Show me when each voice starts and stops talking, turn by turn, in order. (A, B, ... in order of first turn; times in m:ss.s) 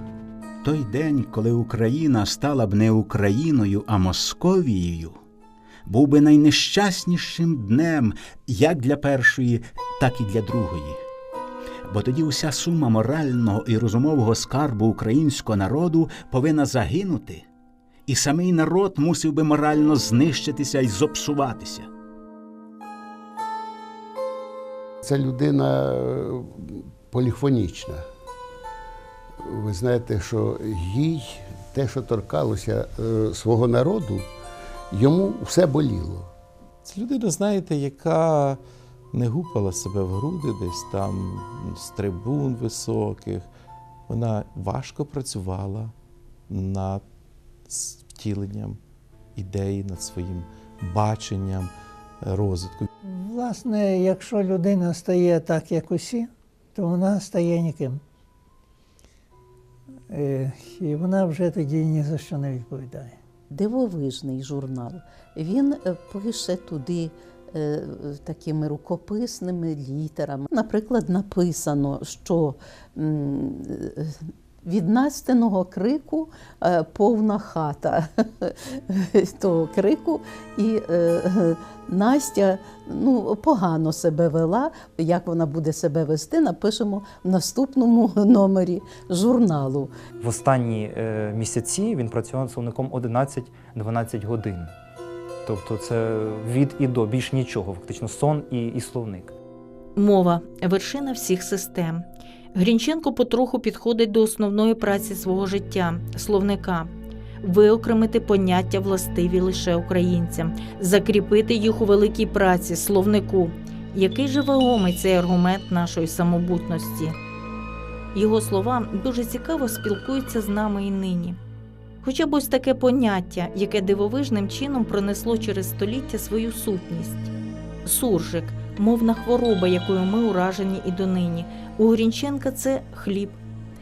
0:00.6-0:05.2 A
0:05.9-0:11.0 A
0:11.9-0:17.4 A
0:18.1-0:21.9 A
0:25.0-0:28.0 B
0:29.4-0:34.3 B
0:34.9-0:36.3 B
0:36.8-0:38.6 C
0:39.1-0:43.5 C
0:44.1-0:45.9 C
0:46.5-0:47.0 C
0:47.7-0:48.8 C
0:49.4-0:52.9 C
0:53.0-0:58.0 D
1:00.1-1:03.2 D
1:03.5-1:29.9 E
1:30.2-1:34.7 F
1:35.5-1:39.3 F
1:40.0-1:46.9 G
1:47.4-1:57.2 G
1:58.1-2:01.4 G
2:02.0-2:07.3 G
2:07.8-2:13.4 G